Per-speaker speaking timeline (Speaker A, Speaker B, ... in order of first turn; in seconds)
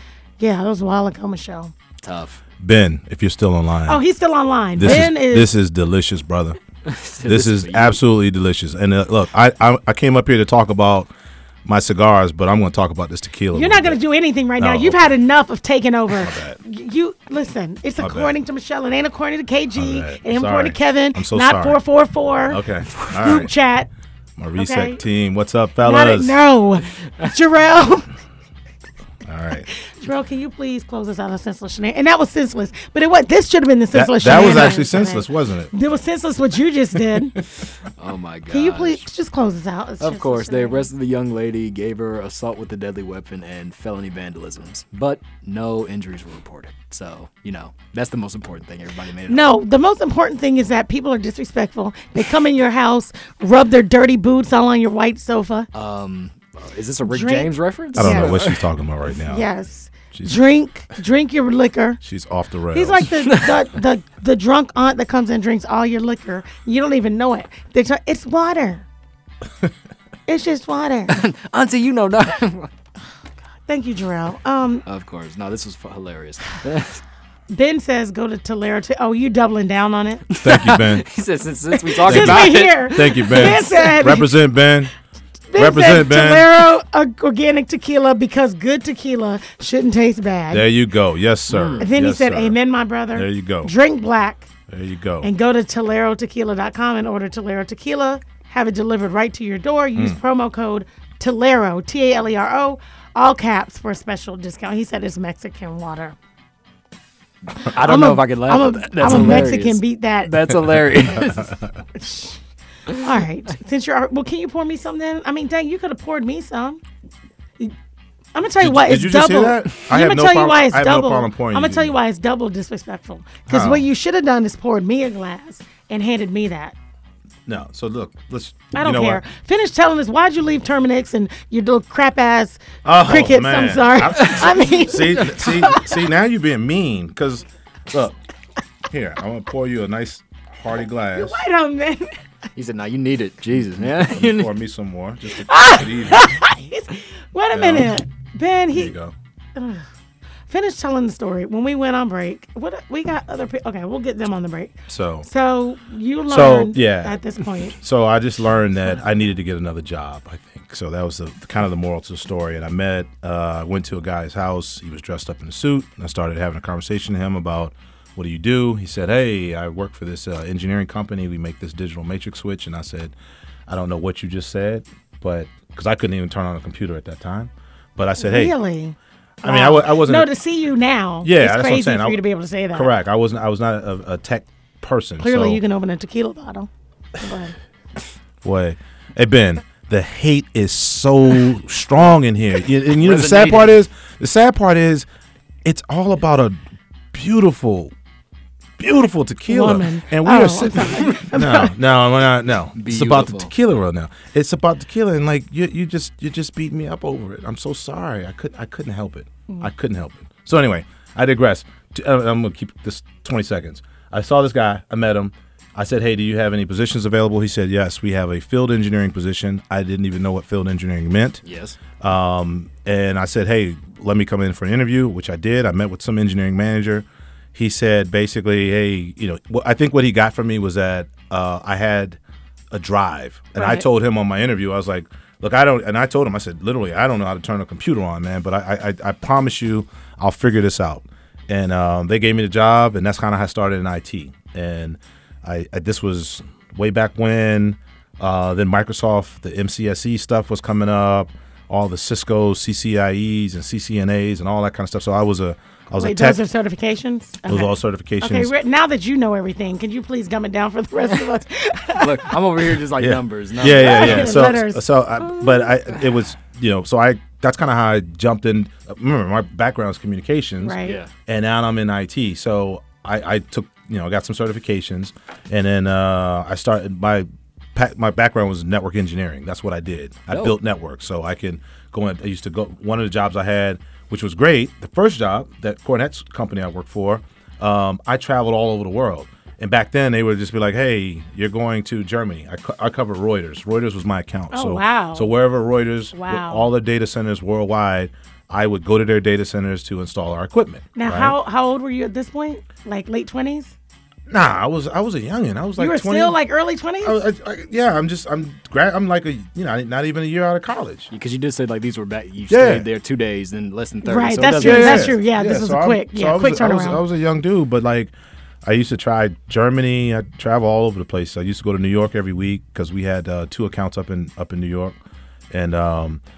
Speaker A: 0.4-1.7, 3.9-5.5, 13.5-23.9, 24.6-25.0, 25.8-28.1, 29.7-37.4, 38.5-40.9, 49.3-55.7, 57.1-58.4, 59.3-62.0, 62.7-68.9, 70.3-71.2, 73.7-74.8, 77.5-80.2, 82.0-84.4, 85.5-90.7, 91.8-94.5, 95.2-106.2, 107.7-110.4, 112.0-112.4, 112.9-116.8, 118.3-126.8, 128.7-136.0, 141.1-142.2, 145.4-148.9, 149.6-149.9, 150.5-157.8, 178.2-182.9, 185.2-187.6, 199.5-201.7, 233.6-233.8, 256.0-262.4, 263.6-265.3, 270.6-271.0, 294.5-295.3, 296.1-296.7, 300.9-303.8, 305.8-307.2, 314.0-317.0
Speaker B: 2.0-2.4, 6.8-8.0, 37.9-39.1, 40.0-49.5, 55.7-58.6, 63.2-63.6, 71.1-72.7, 74.9-77.0, 80.3-83.9, 91.5-91.8, 107.6-111.6, 142.6-144.5, 193.0-193.7, 202.8-203.5, 221.4-221.8, 262.0-264.5, 270.9-271.1, 280.3-280.6, 311.1-315.2
Speaker C: 2.6-4.0, 4.8-6.6, 7.2-11.1, 11.7-14.0, 14.6-15.1, 16.2-16.6, 18.0-18.4, 19.8-21.8, 22.5-23.5, 24.4-26.4, 29.2-29.7, 33.9-35.7, 58.0-59.5, 60.1-60.4, 62.0-63.1, 80.4-81.1, 82.1-84.9, 85.5-86.6, 90.5-92.6, 93.1-93.7, 94.7-95.3, 109.1-109.4, 111.2-111.7, 118.6-122.0, 123.5-123.9, 127.5-129.2, 132.8-138.2, 138.9-141.4, 143.8-146.4, 147.5-147.9, 148.7-149.1, 154.9-155.3, 156.3-173.1, 173.7-178.6, 179.4-180.3, 181.2-185.6, 188.4-195.1, 195.6-196.6, 197.1-197.9, 198.8-221.4, 222.0-232.2, 232.7-256.4, 257.5-258.5, 263.0-301.4, 304.3-306.4, 307.0-311.1, 312.5-312.9, 314.6-318.1, 318.6-325.0, 325.5-326.2